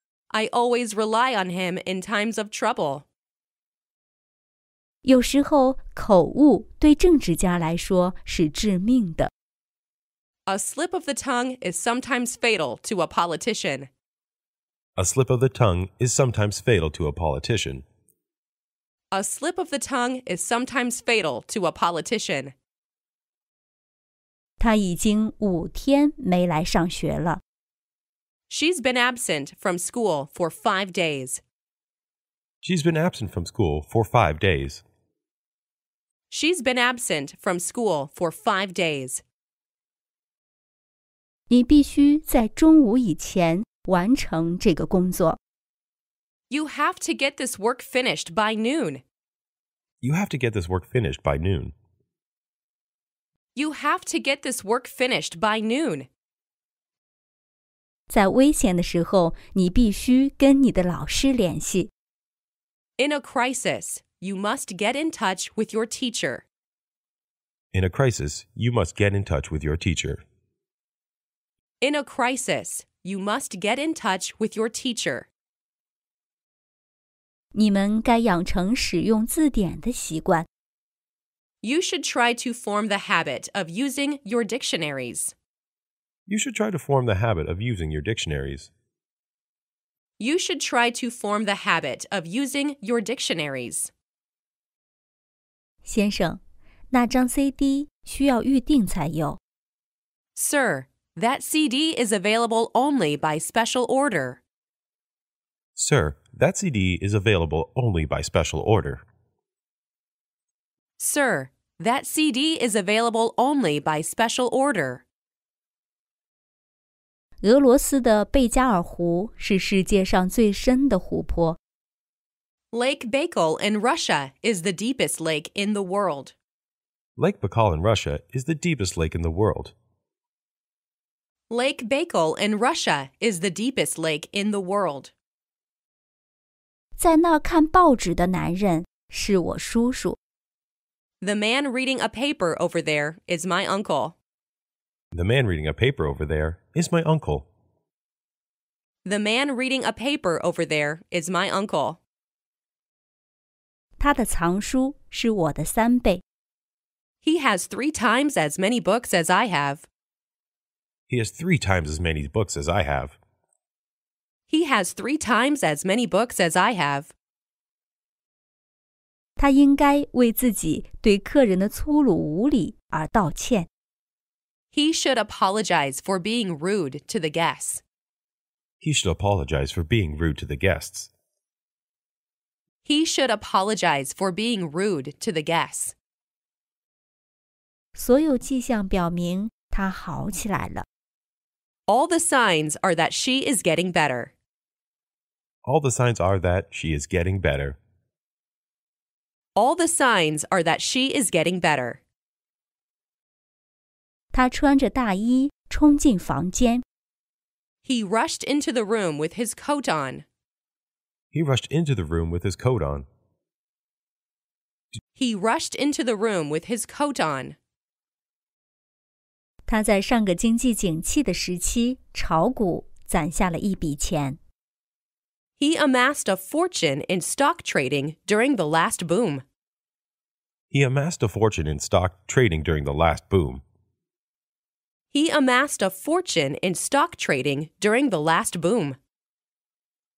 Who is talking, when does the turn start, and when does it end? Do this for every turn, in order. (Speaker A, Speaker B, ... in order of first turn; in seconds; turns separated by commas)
Speaker A: 0.3-3.1, Speaker B: 5.0-9.3, Speaker A: 10.5-13.9, Speaker C: 15.0-17.9, Speaker A: 19.1-22.5, Speaker B: 24.6-27.4, Speaker A: 28.5-31.4, Speaker C: 32.6-34.8, Speaker A: 36.3-39.2, Speaker B: 41.5-45.4, Speaker A: 46.5-49.0, Speaker C: 50.0-51.7, Speaker A: 53.5-56.1, Speaker B: 58.1-61.9, Speaker A: 63.0-66.5, Speaker C: 67.7-70.2, Speaker A: 71.8-75.3, Speaker B: 77.5-80.5, Speaker A: 81.6-85.3, Speaker C: 86.3-88.7, Speaker A: 90.2-93.9, Speaker B: 95.8-99.4, Speaker A: 100.3-104.4, Speaker C: 105.8-109.0, Speaker A: 111.0-115.0, Speaker B: 117.4-121.6, Speaker A: 122.7-126.3, Speaker C: 127.2-129.8, Speaker A: 131.5-135.1, Speaker B: 137.0-140.2, Speaker A: 141.2-144.2, Speaker C: 145.1-147.5, Speaker A: 149.1-152.0, Speaker B: 154.0-156.2, Speaker A: 157.2-159.9, Speaker C: 161.1-163.2, Speaker A: 164.5-167.1, Speaker B: 169.4-173.7, Speaker A: 174.7-177.8, Speaker C: 178.8-181.1, Speaker A: 182.8-185.9, Speaker B: 187.9-190.9, Speaker A: 191.9-194.3, Speaker C: 195.7-197.8, Speaker A: 199.6-202.0, Speaker B: 204.3-206.8, Speaker A: 207.8-210.2, Speaker C: 211.3-213.1, Speaker A: 215.2-217.6, Speaker B: 219.7-224.4, Speaker A: 225.6-229.4, Speaker C: 230.7-233.6, Speaker A: 235.1-239.0